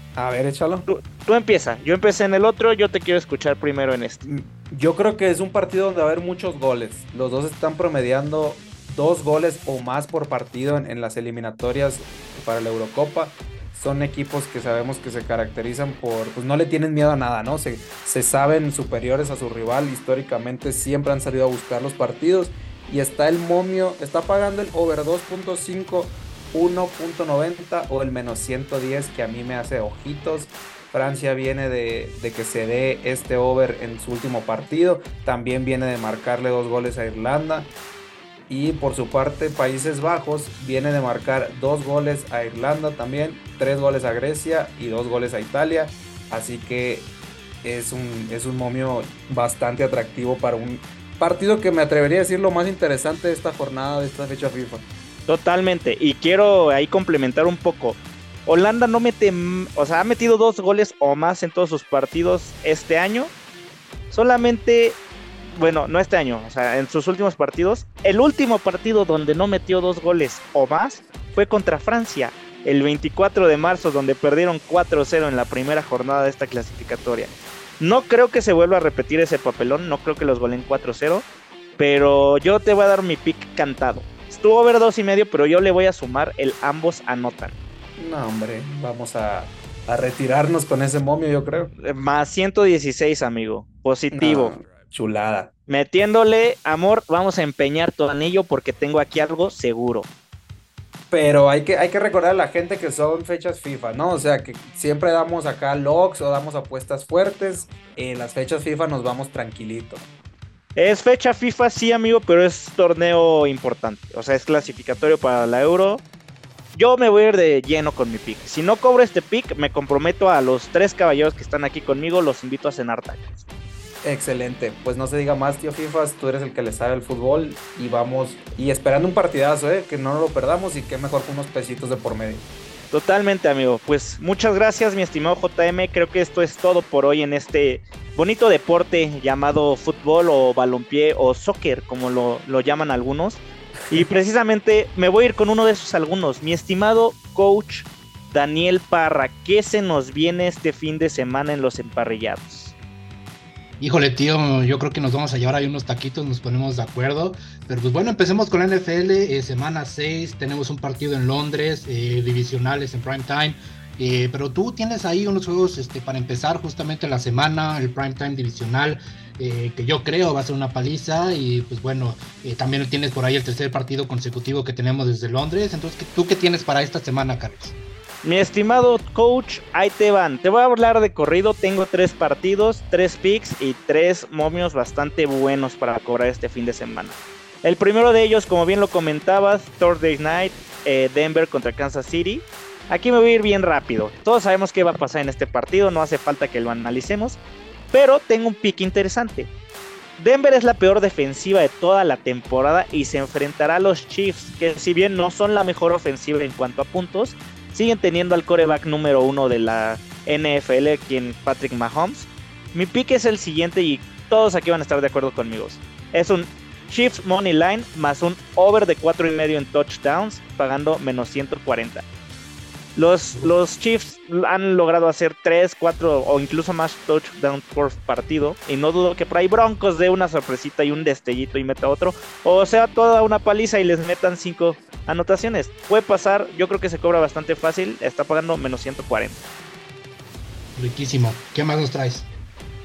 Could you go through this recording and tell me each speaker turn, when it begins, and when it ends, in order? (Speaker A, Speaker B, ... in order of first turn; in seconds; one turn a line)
Speaker A: 0.1-0.9
Speaker B: 0.9-4.2
Speaker A: 4.2-37.7
Speaker A: 38.5-47.1
Speaker A: 47.6-54.9
Speaker B: 55.3-63.3
Speaker B: 64.1-81.2
Speaker B: 81.8-87.5
Speaker A: 88.0-91.7
Speaker B: 91.8-94.6
Speaker A: 94.1-95.5
Speaker B: 95.7-100.1
Speaker A: 101.1-110.0
Speaker B: 110.8-116.0
Speaker B: 116.7-123.4
Speaker A: 124.0-132.5
Speaker B: 132.9-152.7
Speaker C: 153.8-177.8
Speaker B: 178.2-197.4
Speaker B: 197.9-199.5
Speaker B: 200.2-222.0
Speaker B: 222.9-239.4
Speaker C: 240.8-242.3